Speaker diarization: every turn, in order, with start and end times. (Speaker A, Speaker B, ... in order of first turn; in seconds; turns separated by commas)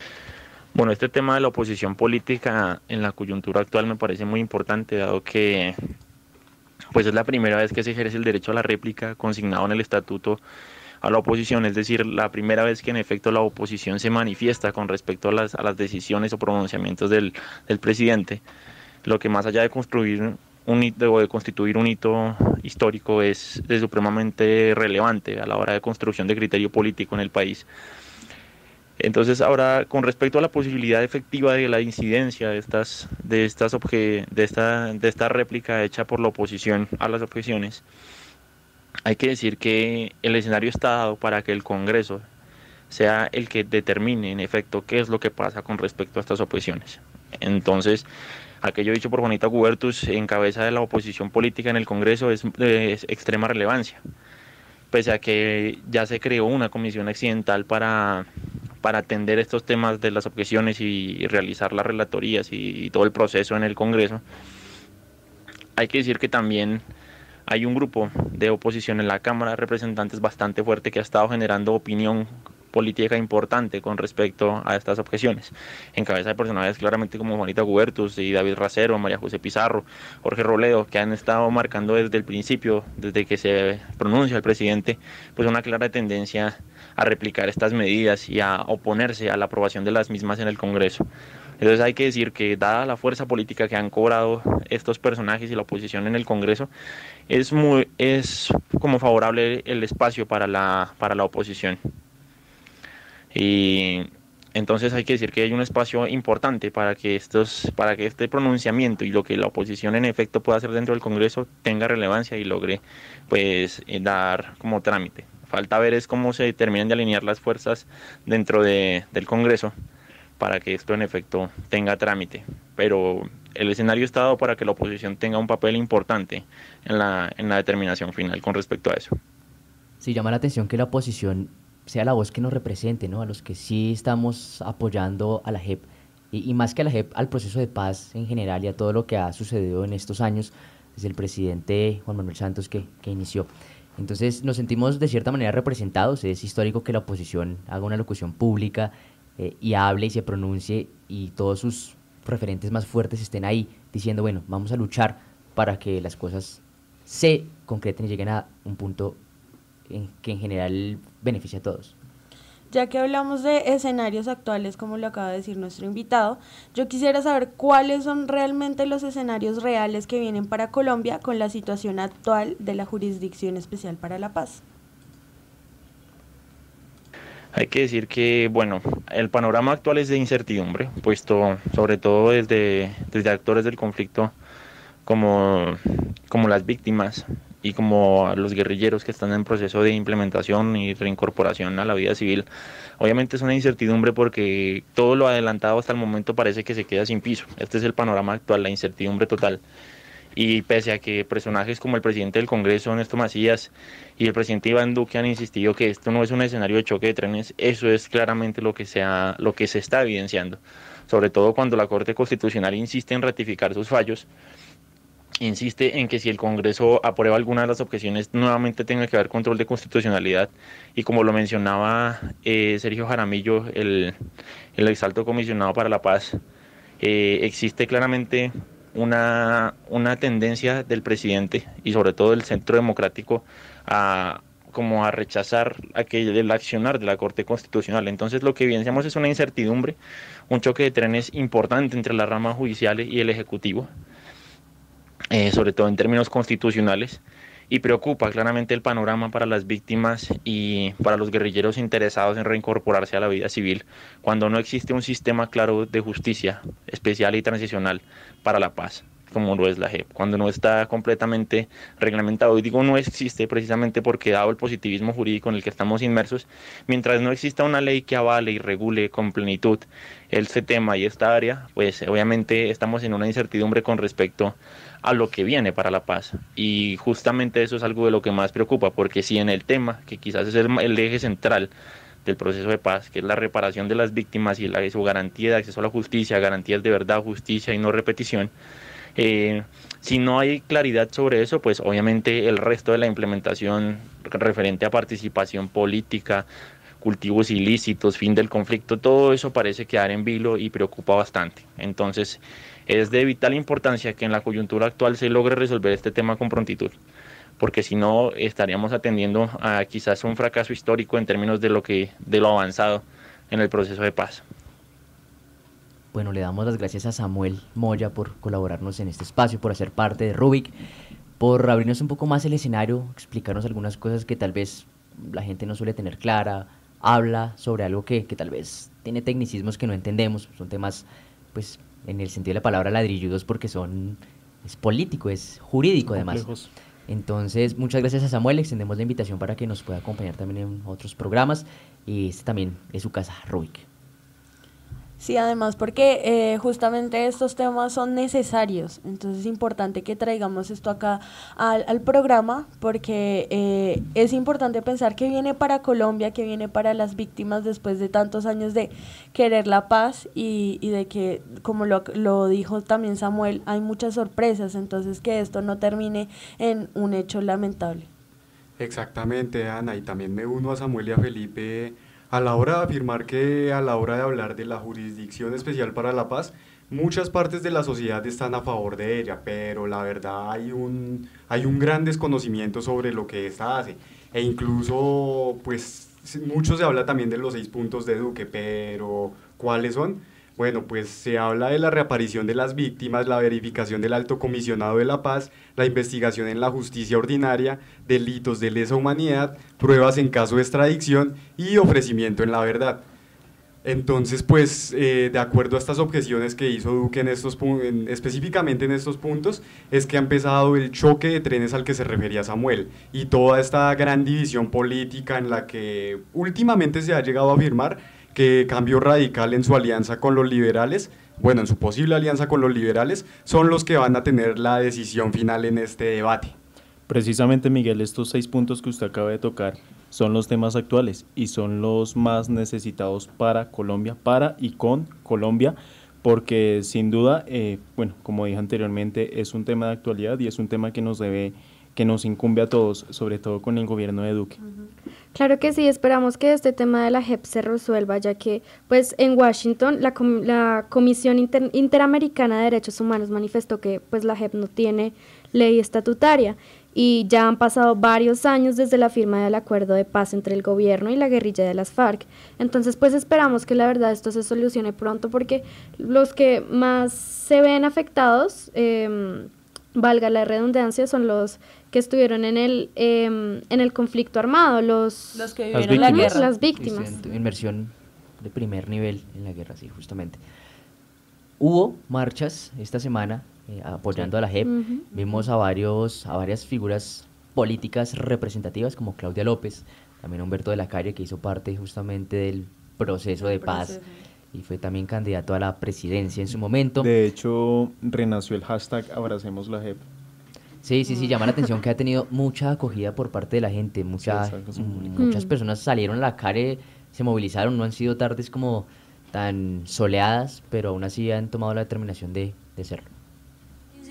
Speaker A: 0.7-5.8, Speaker A: 6.9-10.4, Speaker A: 11.0-18.4, Speaker A: 19.0-27.6, Speaker A: 29.0-37.8, Speaker A: 39.0-42.2, Speaker A: 42.9-48.0, Speaker A: 48.6-54.0, Speaker A: 54.9-58.3, Speaker A: 58.8-64.2, Speaker A: 65.8-66.8, Speaker A: 67.5-91.0, Speaker A: 91.6-96.7, Speaker A: 97.3-101.8, Speaker A: 103.3-119.7, Speaker A: 120.4-129.1, Speaker B: 130.0-159.2, Speaker B: 159.9-161.9, Speaker C: 162.7-174.6, Speaker A: 177.5-184.3, Speaker A: 185.1-192.5, Speaker A: 193.0-199.6, Speaker A: 200.3-214.3, Speaker A: 215.4-224.1, Speaker A: 224.8-226.4, Speaker A: 227.0-240.0, Speaker A: 240.5-243.9, Speaker A: 245.3-281.7, Speaker A: 282.2-288.5, Speaker A: 289.1-296.4, Speaker A: 297.0-306.9, Speaker A: 307.6-314.4, Speaker B: 316.1-320.7, Speaker B: 321.4-336.5, Speaker D: 336.1-336.7, Speaker B: 337.1-343.9, Speaker C: 345.2-368.1, Speaker E: 368.8-403.0, Speaker E: 403.8-426.6, Speaker D: 427.1-444.6, Speaker C: 444.6-444.9, Speaker F: 445.3-477.1, Speaker C: 475.3-476.5, Speaker D: 475.7-476.1, Speaker B: 476.8-480.4, Speaker B: 481.6-494.0, Speaker F: 484.6-485.0, Speaker C: 485.1-485.4, Speaker C: 493.4-494.2, Speaker B: 494.5-497.1, Speaker D: 497.0-500.0, Speaker B: 500.8-513.1, Speaker D: 504.2-505.1, Speaker F: 505.2-505.5